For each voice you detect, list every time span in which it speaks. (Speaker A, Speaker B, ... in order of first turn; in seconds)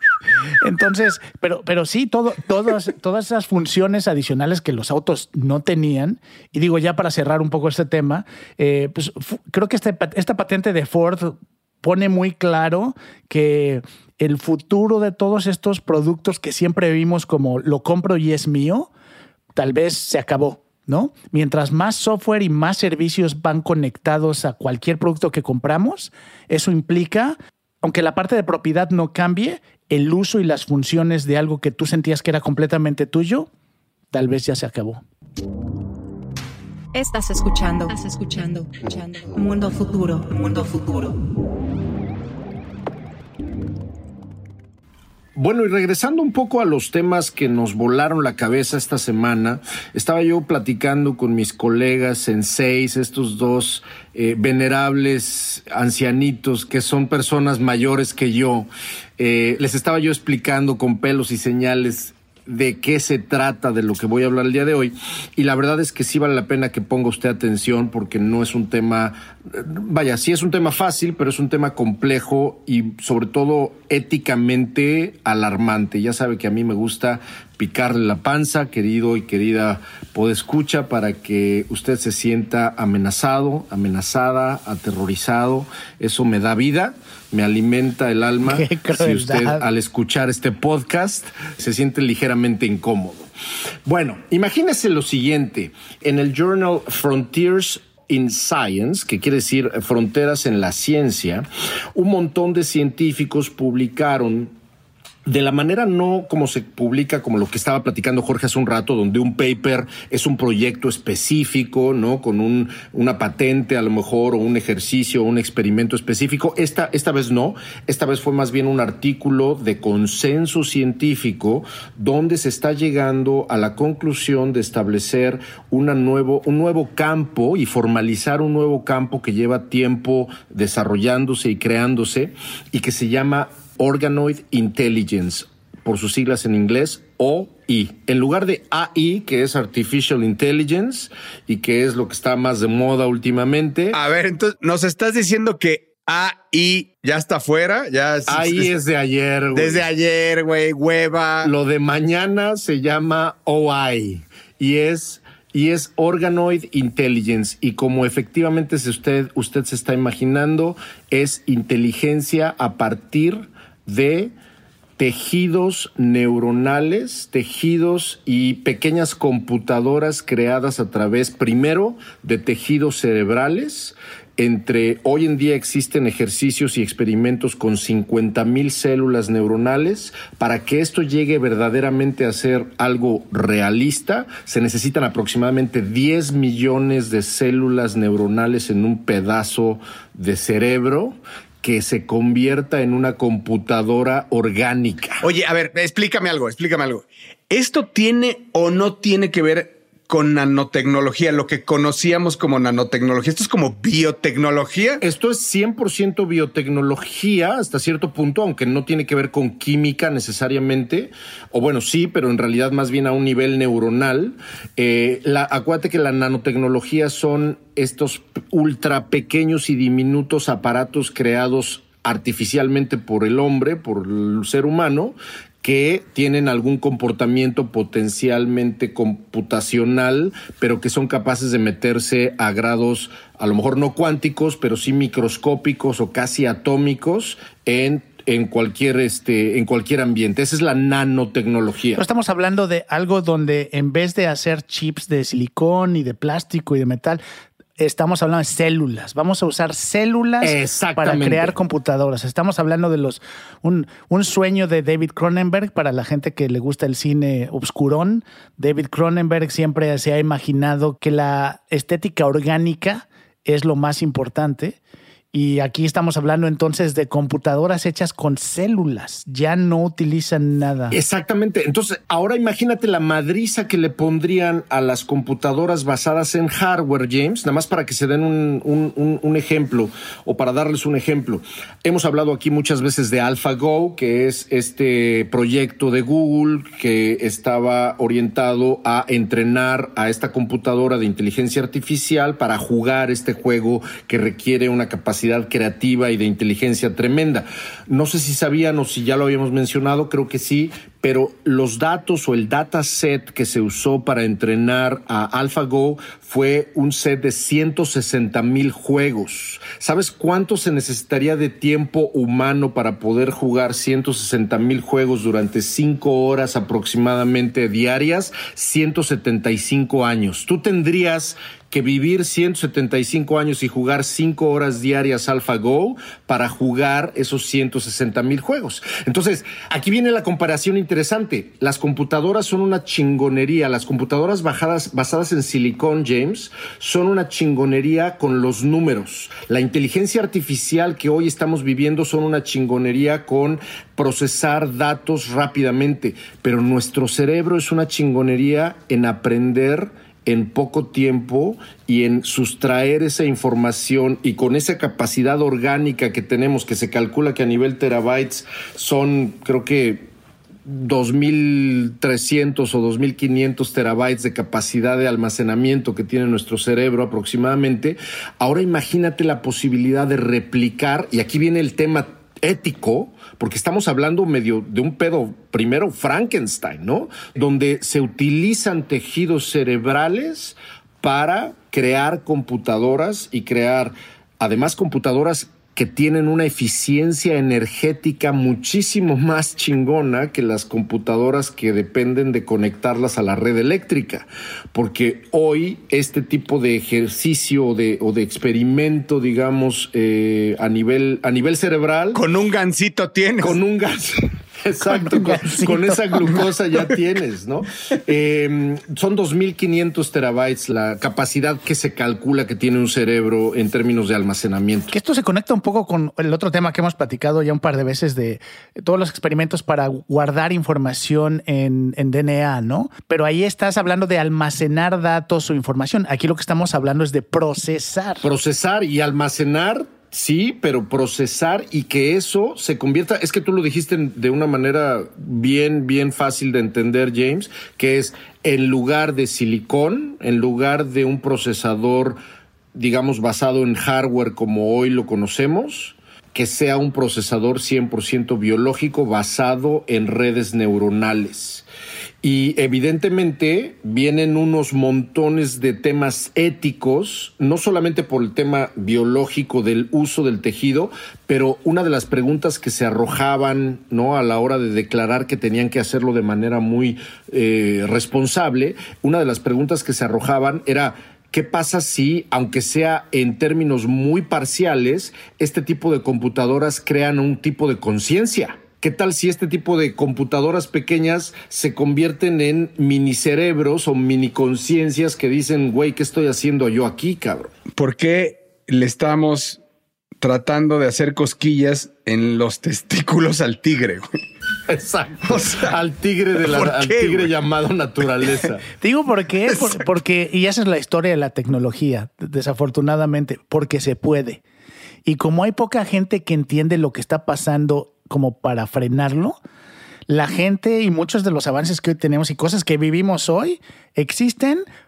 Speaker A: 0.6-18.9, 19.6-33.5, 34.1-35.0, 88.4-89.6, 241.9-247.2, 247.8-264.8, 265.3-271.0, 404.9-406.3, 414.9-428.2, 498.8-504.4, 505.0-509.4, 510.1-514.6
Speaker B: 36.9-41.1
Speaker C: 45.4-93.3, 93.8-104.5, 105.2-144.0, 148.3-149.9, 151.4-164.3, 165.0-195.2, 205.0-242.0, 250.4-251.5, 270.9-360.1, 360.6-402.2, 403.4-414.9, 428.2-442.2, 442.7-451.6, 452.2-487.5, 494.7-498.6
Speaker D: 143.9-148.7, 149.5-151.5, 195.2-205.0, 402.1-403.6, 487.8-489.6, 490.2-494.1, 495.2-495.8, 496.4-497.3